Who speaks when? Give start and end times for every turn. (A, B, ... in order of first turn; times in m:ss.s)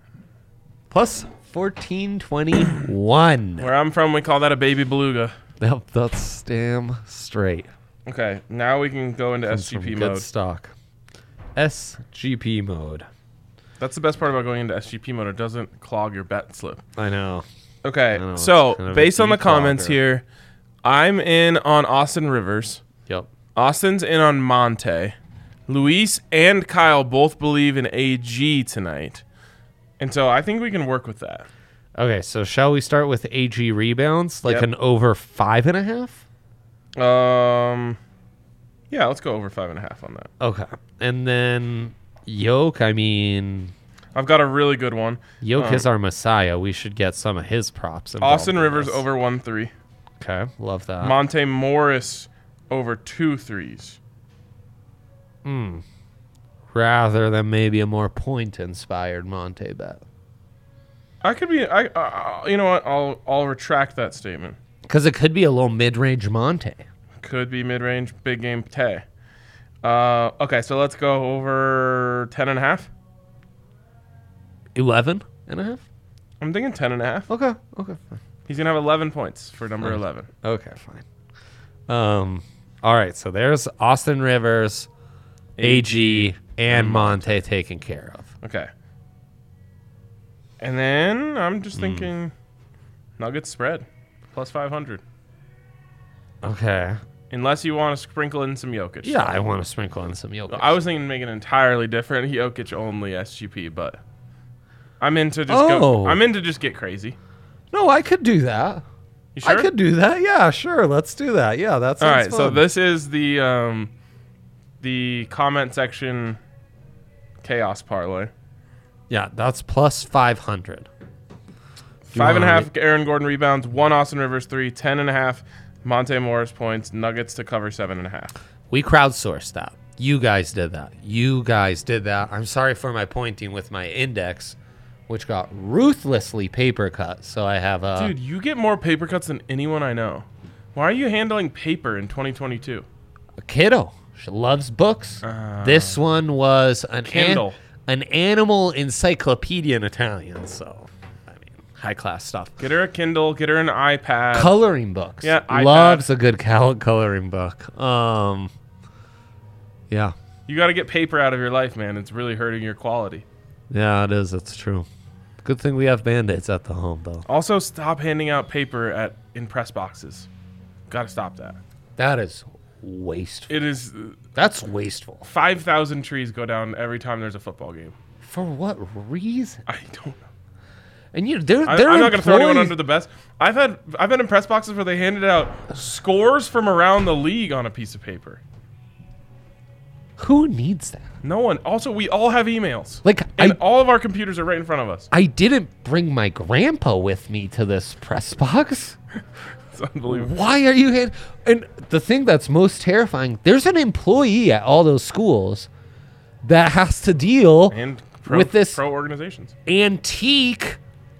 0:00.9-0:03.7 A
0:03.6-0:05.3 B
0:05.6-0:07.7 A
0:08.0-0:10.2 B
0:09.5-0:10.7 A
0:11.6-0:13.1 A
0:13.8-0:16.8 B
0:17.0-0:17.4 A
0:17.8-0:20.2 B
0:18.1-0:20.0 A
0:20.8-0:22.8 B
0:23.5-0:25.2 B
0:25.7-0:29.2 B
0:30.0-0:31.4 B
0:32.0-0:36.2 A
0:37.0-0:38.0 B
0:38.9-0:40.3 B
0:40.4-0:43.7 A
0:44.1-0:45.9 B
0:45.4-0:49.0 A
0:48.2-0:49.7 B
0:50.2-0:51.2 A
0:51.0-0:54.0 B
0:55.4-0:55.8 A
0:56.7-1:00.0 A
1:01.2-1:04.6 B
1:04.9-1:06.8 A
1:07.2-1:09.0 B
1:09.8-1:12.9 B
1:14.7-1:15.8 A
1:16.4-1:17.3 B
1:17.3-1:18.2 A
1:18.5-1:20.3 B
1:19.8-1:21.0 A
1:21.9-1:24.9 A
1:25.6-1:27.4 B
1:25.6-1:28.3 A
1:28.4-1:28.7 B
1:30.6-1:32.3 B
1:31.7-1:32.1 A
1:33.2-1:35.0 B
1:36.4-1:37.0 A
1:37.3-1:39.3 B
1:39.0-1:40.8 A
1:40.5-1:44.0 B
1:45.0-1:47.2 B
1:45.5-1:46.2 A
1:47.7-1:48.8 A
1:49.3-1:49.7 B
1:49.4-1:52.6 A
1:52.0-1:53.9 B
1:54.8-1:56.4 B
1:57.4-1:58.3 B
1:59.1-2:00.9 A
2:02.1-2:08.3 B
2:02.1-2:02.7 A
2:08.7-2:14.6 A
2:15.1-2:18.1 A
2:17.9-2:22.8 B
2:23.4-2:32.5 A
2:25.2-2:26.0 B
2:27.0-2:27.6 B
2:32.6-2:34.5 B
2:34.3-2:38.5 A
2:35.2-2:36.1 B
2:39.9-2:40.1 A
2:40.5-2:43.2 B
2:43.7-2:44.9 A
2:45.4-2:47.2 A
2:47.3-2:50.3 B
2:50.9-2:51.6 B
2:52.0-2:53.5 A
2:53.5-2:54.2 B
2:54.3-2:55.3 A
2:55.2-2:57.9 B
2:58.2-2:59.6 A
2:59.6-3:00.2 B
3:01.1-3:02.8 A
3:01.6-3:08.4 B
3:10.2-3:11.1 A
3:11.2-3:15.1 B
3:13.0-3:13.6 A
3:15.1-3:19.0 A
3:19.7-3:20.3 B
3:20.1-3:25.7 A
3:26.4-3:28.8 A
3:27.7-3:29.5 B
3:29.6-3:30.8 A